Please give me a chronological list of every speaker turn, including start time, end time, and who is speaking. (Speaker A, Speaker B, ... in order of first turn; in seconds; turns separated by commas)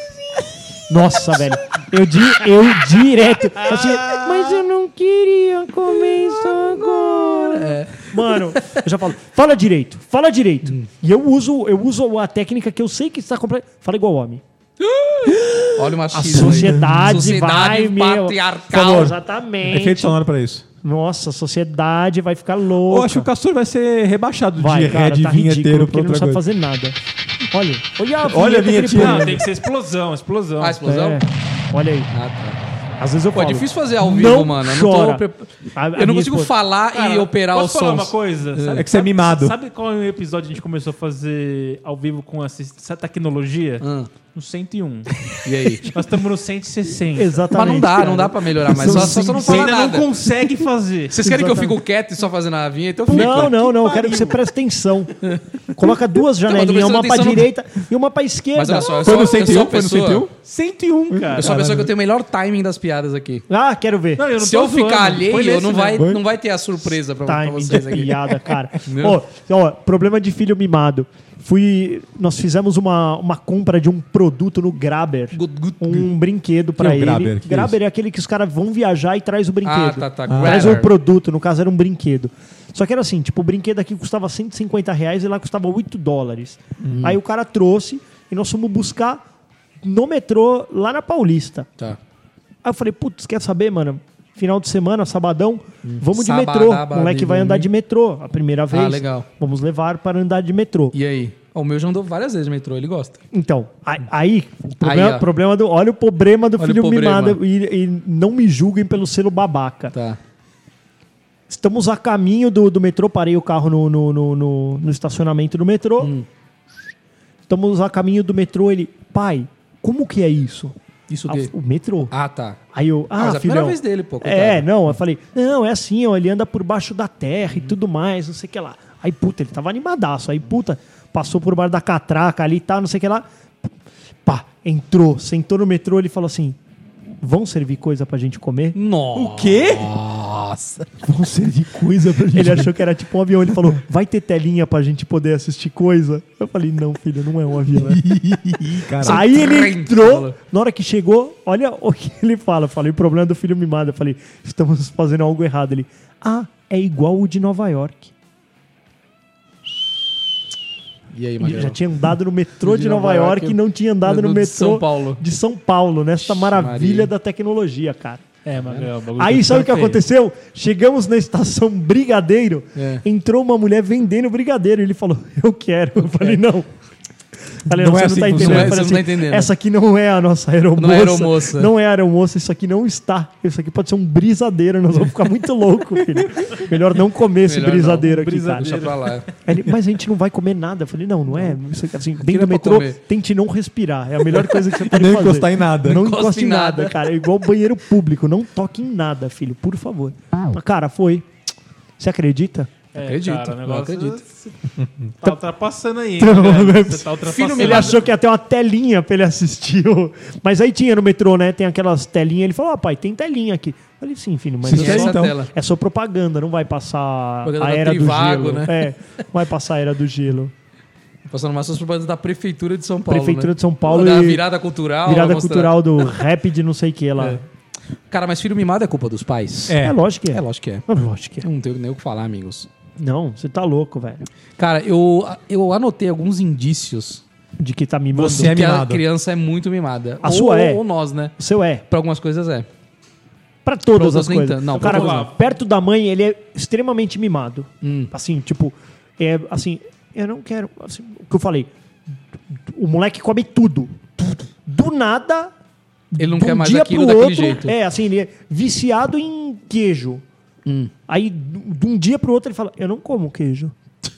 Speaker A: 0.9-14.4, Speaker B: 6.5-8.8, Speaker B: 14.8-19.1, Speaker C: 15.3-17.4, Speaker A: 16.1-20.2, Speaker C: 18.8-20.7, Speaker A: 20.8-23.3, Speaker C: 22.8-26.4, Speaker A: 24.6-27.0, Speaker A: 27.5-29.4, Speaker C: 28.2-29.4, Speaker D: 29.0-30.8, Speaker B: 30.6-31.2, Speaker A: 30.8-32.1, Speaker B: 32.1-32.6, Speaker A: 33.0-36.5, Speaker B: 33.3-38.9, Speaker D: 36.9-45.4, Speaker C: 38.7-39.6, Speaker B: 43.8-44.1, Speaker B: 45.4-45.9, Speaker D: 45.9-47.6, Speaker A: 47.1-49.6, Speaker B: 47.5-50.1, Speaker D: 48.7-51.2, Speaker C: 49.0-49.7, Speaker B: 51.1-53.5, Speaker A: 51.2-51.8, Speaker D: 53.1-54.4, Speaker A: 53.1-55.2, Speaker A: 55.7-59.4, Speaker B: 56.5-57.5, Speaker B: 58.6-60.3, Speaker C: 59.0-61.9, Speaker D: 60.9-61.6, Speaker B: 61.4-63.5, Speaker A: 61.5-61.9, Speaker A: 63.5-64.2, Speaker D: 64.2-66.1, Speaker B: 64.4-68.3, Speaker C: 66.0-66.2, Speaker A: 67.2-89.2, Speaker B: 68.9-69.2, Speaker B: 75.3-76.0, Speaker C: 76.8-77.8, Speaker B: 79.7-80.9, Speaker C: 80.3-80.8, Speaker C: 86.8-87.1, Speaker A: 89.8-91.7, Speaker A: 92.6-101.0, Speaker B: 95.8-97.7, Speaker B: 98.7-99.3, Speaker B: 100.9-103.2, Speaker A: 103.3-109.9, Speaker B: 104.8-105.3, Speaker B: 106.6-107.4, Speaker B: 109.9-110.2, Speaker A: 111.5-116.1, Speaker B: 116.0-116.3, Speaker A: 117.5-120.7, Speaker B: 121.1-121.5, Speaker A: 121.3-122.1, Speaker B: 122.1-122.6, Speaker A: 122.7-133.3, Speaker B: 123.2-124.7, Speaker A: 134.2-136.6, Speaker A: 137.2-138.8, Speaker B: 138.8-140.9, Speaker C: 139.1-140.0, Speaker C: 141.0-142.7, Speaker A: 142.3-148.0, Speaker C: 147.7-149.3, Speaker B: 149.0-150.3, Speaker A: 149.0-158.1, Speaker B: 161.1-161.8, Speaker A: 161.4-168.2, Speaker B: 162.6-165.2, Speaker B: 166.2-167.1, Speaker D: 168.4-170.0, Speaker B: 168.6-168.9, Speaker A: 169.2-176.7, Speaker B: 172.8-173.0, Speaker A: 177.6-188.7, Speaker C: 177.7-178.9, Speaker B: 178.3-179.5, Speaker B: 180.8-181.7, Speaker B: 187.4-189.3, Speaker D: 188.0-189.2, Speaker A: 189.4-201.3, Speaker B: 192.2-193.0, Speaker C: 194.6-196.1, Speaker B: 195.9-197.1, Speaker A: 202.0-202.7, Speaker D: 202.9-204.6, Speaker B: 203.0-204.2, Speaker C: 204.8-205.1, Speaker D: 205.2-208.0, Speaker A: 206.2-220.5, Speaker B: 207.3-208.0, Speaker C: 214.6-215.4, Speaker B: 214.7-215.5, Speaker B: 217.4-218.9, Speaker B: 221.3-226.2, Speaker A: 223.1-224.4, Speaker A: 225.1-227.4, Speaker B: 228.1-229.8, Speaker C: 229.7-230.0, Speaker A: 229.8-231.5, Speaker B: 230.3-230.9, Speaker B: 231.4-232.7, Speaker A: 233.0-234.2, Speaker B: 234.6-237.2, Speaker A: 237.6-238.6, Speaker C: 238.1-239.0, Speaker B: 238.4-241.4, Speaker A: 240.2-240.8, Speaker A: 241.4-241.8, Speaker B: 241.9-242.7, Speaker A: 243.7-251.7, Speaker B: 243.9-245.3, Speaker D: 244.7-245.4, Speaker B: 247.8-248.1, Speaker A: 252.5-255.5, Speaker A: 256.1-260.2, Speaker B: 256.2-257.8, Speaker B: 260.6-260.9, Speaker A: 261.1-263.7